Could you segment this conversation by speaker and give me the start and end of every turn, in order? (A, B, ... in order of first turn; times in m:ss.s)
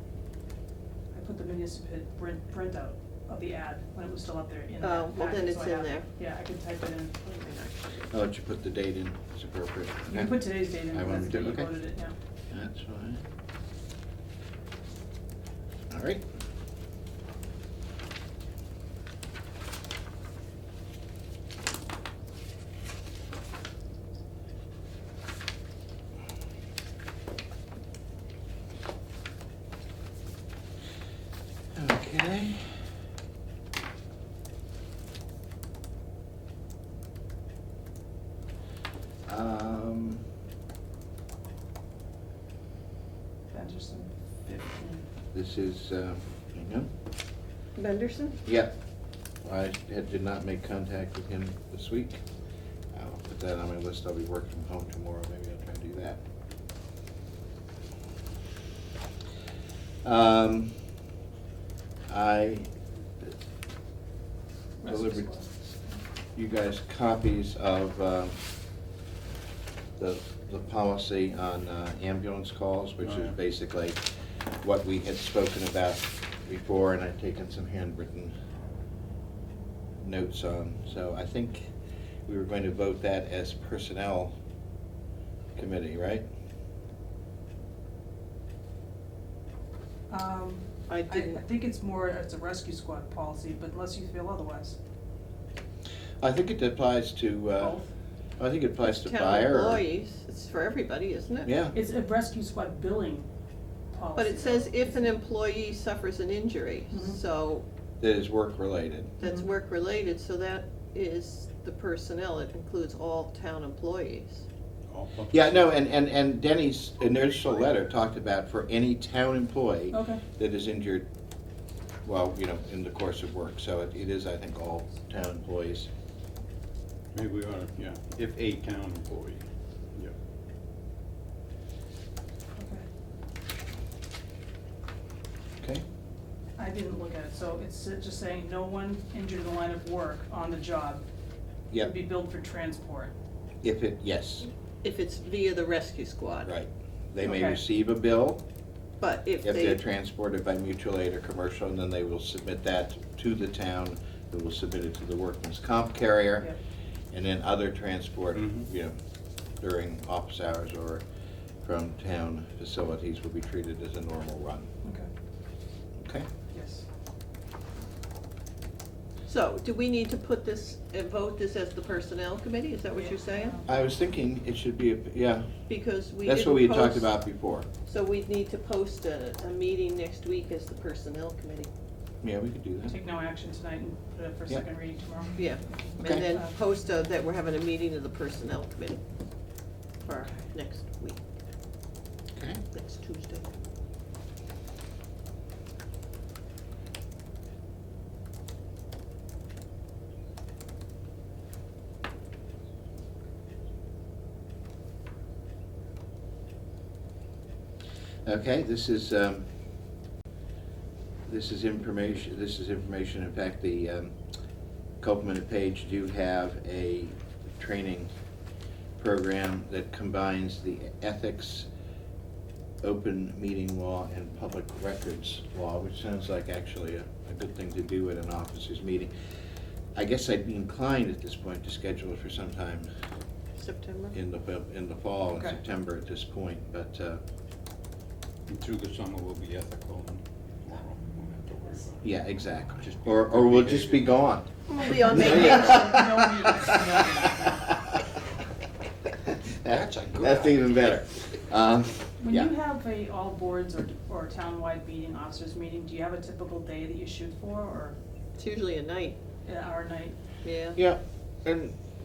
0:01.1-0:07.1 A
0:04.8-0:06.1 B
0:07.2-0:08.0 B
0:08.1-0:11.7 C
0:10.1-0:12.1 A
0:12.5-0:13.2 C
0:15.9-0:16.2 C
0:31.7-0:32.8 C
0:39.3-0:40.2 C
0:43.5-0:45.0 A
0:45.3-0:46.9 C
0:47.8-0:48.4 B
0:48.4-0:48.7 C
0:49.4-0:52.2 C
0:52.9-0:56.2 C
1:00.0-1:00.7 C
1:02.1-1:02.7 C
1:04.8-1:06.0 A
1:04.8-1:05.3 C
1:06.3-1:08.4 C
1:10.0-1:14.0 C
1:13.0-1:13.3 D
1:14.6-1:18.3 C
1:20.0-1:21.7 C
1:22.2-1:24.3 C
1:25.6-1:26.2 C
1:30.1-1:34.8 A
1:30.9-1:31.4 B
1:36.2-1:37.8 C
1:37.6-1:37.9 A
1:38.4-1:39.8 C
1:38.8-1:41.5 B
1:41.4-1:41.8 C
1:41.7-1:43.3 A
1:43.9-1:45.1 A
1:44.2-1:47.7 B
1:46.9-1:47.2 A
1:48.0-1:49.1 C
1:49.2-1:54.4 B
1:49.2-1:49.5 A
1:54.9-1:55.7 D
1:55.3-2:01.0 C
1:59.9-2:00.2 A
2:02.0-2:05.9 C
2:07.1-2:09.4 D
2:12.6-2:12.8 A
2:16.6-2:21.0 A
2:21.8-2:23.1 A
2:23.6-2:24.5 C
2:24.8-2:26.5 B
2:26.5-2:28.4 C
2:27.2-2:27.6 A
2:29.0-2:29.8 B
2:29.4-2:36.5 C
2:37.1-2:39.0 C
2:38.4-2:38.6 D
2:39.6-2:41.0 C
2:41.6-2:44.7 C
2:44.8-2:45.1 A
2:46.0-2:46.3 C
2:46.5-2:46.9 A
2:49.3-2:53.6 B
2:53.0-2:53.7 A
2:53.7-2:55.6 C
2:55.7-2:57.1 B
2:56.2-2:57.7 C
2:57.8-3:01.7 B
3:02.2-3:03.0 C
3:02.9-3:06.5 A
3:05.4-3:09.0 B
3:10.0-3:11.2 B
3:12.3-3:12.6 C
3:12.7-3:13.5 B
3:28.2-3:29.5 C
3:31.2-3:34.2 C
3:35.0-3:38.1 C
3:39.0-3:41.7 C
3:42.8-3:49.1 C
3:50.0-3:52.9 C
3:53.6-3:54.2 B
3:54.1-3:57.2 C
3:58.5-4:02.1 D
4:02.0-4:07.5 C
4:03.1-4:04.1 D
4:04.7-4:06.0 B
4:04.9-4:07.7 A
4:09.2-4:12.5 C
4:09.7-4:10.7 D
4:12.2-4:18.0 A
4:18.4-4:19.2 B
4:19.4-4:20.2 A
4:20.4-4:20.8 B
4:20.8-4:21.8 C